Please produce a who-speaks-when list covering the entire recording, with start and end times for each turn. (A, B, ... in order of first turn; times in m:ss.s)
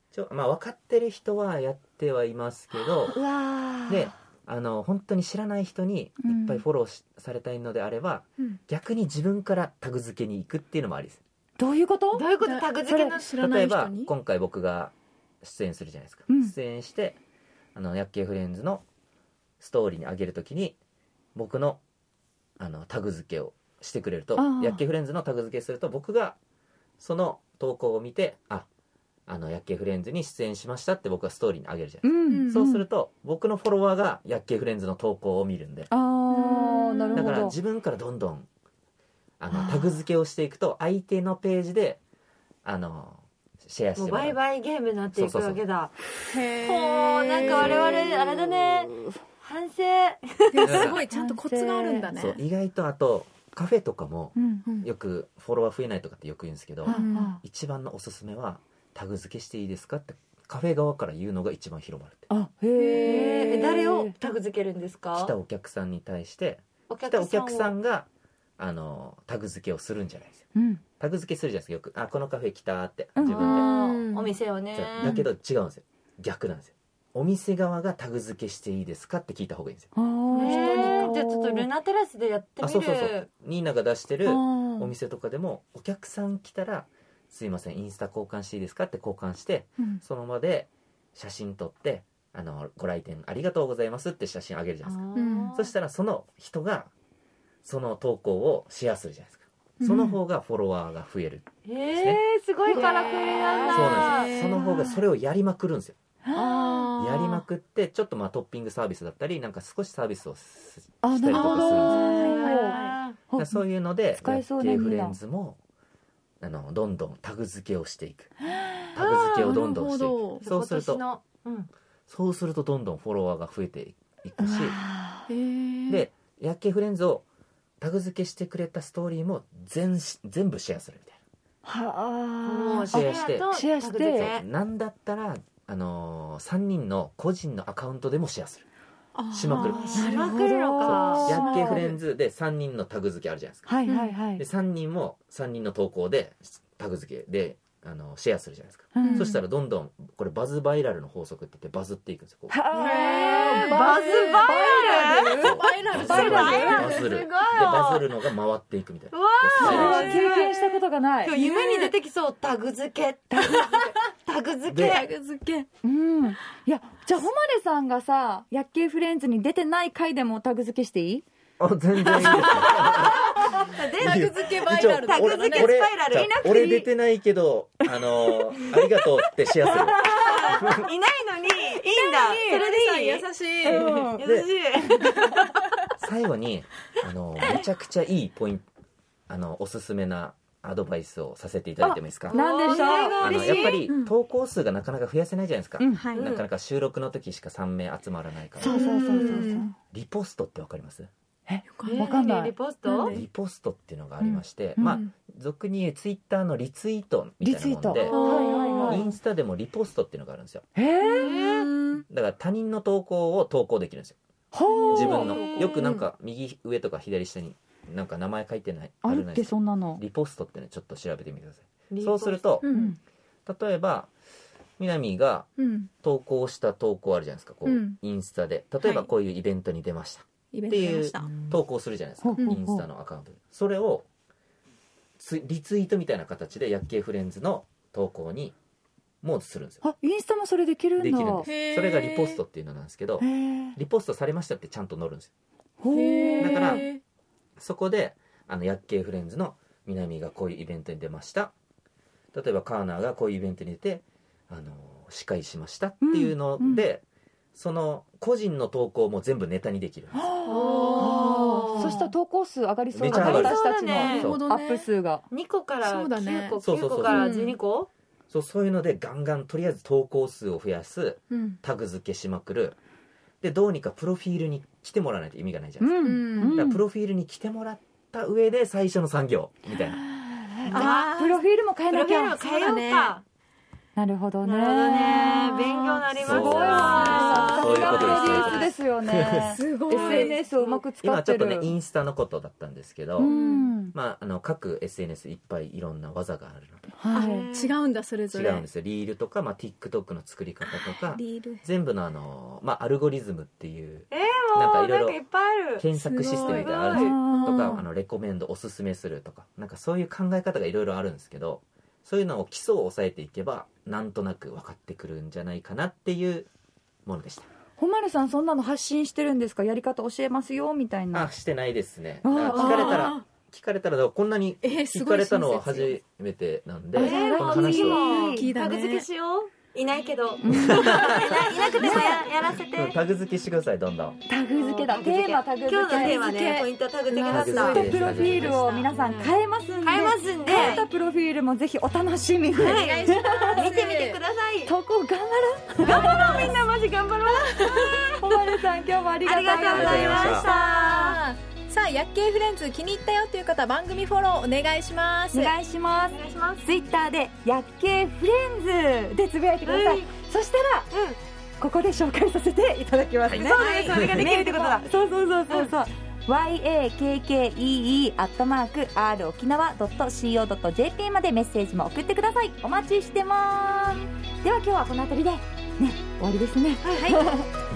0:00.1-0:03.2 A
0:03.1-0:04.1 B
0:03.9-0:11.2 A
0:06.2-0:06.6 B
0:11.6-0:12.3 B
0:12.1-0:13.3 C
0:12.4-0:14.1 D
0:12.9-0:13.2 B
0:13.4-0:17.2 A
0:16.3-0:16.5 B
0:17.8-0:18.8 A
0:19.6-0:20.8 A
0:21.4-0:21.8 A
0:22.6-0:26.4 A
0:24.4-0:24.8 B
0:27.0-0:28.7 A
0:29.3-0:35.9 A
0:32.0-0:32.8 B
0:32.3-0:32.6 D
0:35.9-0:37.6 B
0:36.3-0:37.5 D
0:37.2-0:38.5 A
0:39.4-0:42.0 A
0:39.5-0:40.0 B
0:42.6-0:44.4 A
0:44.0-0:46.0 C
0:45.2-0:45.6 A
0:46.3-0:48.1 D
0:46.6-0:50.9 C
0:47.5-0:47.8 A
0:50.5-0:52.4 D
0:50.6-0:51.0 A
0:51.1-0:52.1 B
0:52.1-1:02.2 A
0:54.4-0:54.6 B
0:56.8-0:57.4 B
0:56.9-0:57.3 D
1:02.3-1:04.1 B
1:02.7-1:03.8 D
1:03.0-1:05.3 C
1:05.1-1:10.4 A
1:06.9-1:07.7 C
1:10.6-1:10.8 B
1:11.0-1:13.7 A
1:13.2-1:13.6 B
1:13.3-1:14.4 D
1:13.4-1:15.2 C
1:14.7-1:19.9 A
1:20.0-1:21.7 B
1:20.3-1:21.2 D
1:20.4-1:23.3 C
1:22.6-1:35.0 A
1:24.3-1:24.9 D
1:34.8-1:35.7 C
1:35.2-1:35.6 D
1:35.5-1:36.9 A
1:37.6-1:42.2 A
1:39.8-1:40.2 D
1:41.6-1:44.4 C
1:42.7-1:44.6 D
1:43.7-1:46.0 A
1:44.5-1:45.0 B
1:46.3-1:46.9 B
1:46.3-1:47.4 D
1:47.0-1:52.2 A
1:51.0-1:53.6 B
1:51.3-1:53.0 D
1:52.0-1:53.2 C
1:53.4-1:55.6 A
1:54.2-1:55.2 B
1:56.4-1:58.3 A
1:58.9-2:01.0 A
1:59.0-2:00.4 D
2:00.4-2:01.7 C
2:02.1-2:04.8 A
2:04.4-2:05.3 B
2:05.3-2:06.1 D
2:05.9-2:07.2 A
2:07.8-2:11.2 A
2:11.6-2:14.3 B
2:12.4-2:14.4 C
2:12.9-2:18.6 A
2:19.2-2:20.5 D
2:19.3-2:20.2 A
2:19.6-2:21.9 C
2:19.9-2:21.9 B
2:20.8-2:23.7 A
2:23.7-2:24.4 B
2:23.9-2:24.2 D
2:24.4-2:32.6 A
2:29.0-2:29.3 B
2:29.0-2:29.4 D
2:32.5-2:36.9 B
2:32.7-2:37.1 D
2:33.4-2:38.1 C
2:35.4-2:40.2 A
2:39.1-2:45.1 C
2:39.6-2:41.4 B
2:39.6-2:40.3 D
2:41.4-2:41.9 D
2:43.3-2:43.7 B
2:44.7-2:45.0 A
2:44.8-2:45.7 D
2:45.8-2:51.2 B
2:51.6-3:00.8 A
2:52.2-2:56.3 C
2:52.2-2:53.4 D
2:54.0-2:55.8 D
2:56.1-2:56.9 B
2:58.0-2:58.4 B
2:59.9-3:00.8 B
2:59.9-3:05.5 C
3:01.8-3:02.7 B
3:02.3-3:04.1 D
3:03.6-3:04.2 B
3:04.2-3:04.5 A
3:06.0-3:08.7 A
3:09.3-3:12.4 A
3:11.8-3:13.7 B
3:12.3-3:13.7 C
3:12.6-3:14.1 D
3:13.2-3:19.3 A
3:15.8-3:16.0 B
3:15.9-3:16.4 D
3:16.2-3:16.4 C
3:18.6-3:19.7 B
3:18.6-3:19.7 D
3:19.9-3:21.1 A
3:21.5-3:22.5 B
3:21.7-3:22.1 D
3:21.9-3:23.2 C
3:22.9-3:23.2 D
3:23.1-3:30.6 A
3:24.2-3:25.1 D
3:24.8-3:25.0 B
3:27.4-3:29.1 B
3:28.1-3:29.0 D
3:30.8-3:31.5 B
3:31.0-3:31.7 C
3:31.4-3:32.0 D
3:32.1-3:34.2 A
3:34.5-3:35.3 B
3:34.8-3:36.1 D
3:34.9-3:42.7 A
3:35.3-3:35.7 C
3:39.0-3:40.0 B
3:41.9-3:42.5 C
3:42.6-3:42.9 D
3:42.7-3:43.0 B
3:43.5-3:44.1 A
3:44.8-3:45.5 A
3:45.6-3:45.9 D
3:46.0-3:54.1 A
3:47.7-3:48.0 D
3:48.8-3:49.1 D
3:50.5-3:51.3 D
3:52.2-3:52.8 B
3:55.2-3:58.6 A
3:59.2-3:59.8 A
3:59.8-4:01.5 B
4:01.0-4:05.3 A
4:01.4-4:02.4 D
4:03.2-4:03.8 B
4:05.8-4:06.8 B
4:05.9-4:07.0 D
4:06.4-4:06.9 A
4:07.6-4:11.5 A
4:12.3-4:17.0 A
4:16.0-4:16.9 B
4:17.6-4:20.3 A
4:20.1-4:25.2 B
4:20.5-4:22.0 C
4:20.6-4:22.1 D
4:22.9-4:24.4 A
4:23.1-4:24.3 C
4:23.9-4:24.9 D
4:25.3-4:27.9 C
4:25.8-4:27.6 D
4:26.6-4:27.3 A
4:28.3-4:32.8 A
4:31.3-4:31.6 D
4:33.4-4:40.0 A
4:35.8-4:36.8 B
4:36.0-4:36.6 D
4:40.2-4:42.4 B
4:40.7-4:41.1 C
4:40.7-4:41.4 D
4:41.9-4:43.2 C
4:42.4-4:43.2 D
4:44.0-4:51.7 B
4:44.4-4:48.7 C
4:46.1-4:49.5 A
4:47.3-4:48.7 D
4:49.4-4:50.4 D
4:49.9-4:50.8 C
4:51.0-4:53.3 A
4:53.2-4:53.9 B
4:53.2-4:53.7 D
4:53.9-4:56.9 A
4:57.0-4:57.5 B
4:57.1-4:58.7 D
4:57.1-4:57.7 C
4:58.3-5:05.2 A
5:00.7-5:01.6 D
5:04.1-5:07.2 C
5:05.8-5:16.5 A
5:05.9-5:07.8 D
5:06.9-5:07.7 B
5:17.1-5:17.5 A
5:17.8-5:21.3 B
5:21.1-5:28.0 A
5:22.2-5:23.1 B
5:22.5-5:23.2 D
5:24.6-5:26.0 D
5:27.0-5:28.5 B
5:27.0-5:33.0 C
5:28.1-5:29.0 D
5:30.4-5:31.2 B
5:30.5-5:31.1 A
5:31.4-5:32.1 D
5:31.8-5:32.2 B
5:31.8-5:32.1 A
5:32.8-5:34.2 A
5:34.3-5:43.6 B
5:34.5-5:40.9 C
5:35.9-5:36.5 D
5:37.3-5:38.8 A
5:42.5-5:44.7 C
5:42.6-5:44.2 D
5:44.6-5:46.6 B
5:45.8-5:48.3 C
5:45.9-5:46.5 D
5:47.3-5:48.2 D
5:48.2-5:50.4 B
5:49.2-5:51.2 C
5:49.7-5:50.5 A
5:50.2-5:55.5 D
5:55.3-6:00.9 B
5:56.1-5:56.7 C
5:59.6-6:00.1 C
6:00.9-6:01.2 C
6:01.6-6:17.5 B
6:03.3-6:04.2 A
6:03.4-6:04.8 C
6:03.6-6:04.3 D
6:16.9-6:17.3 D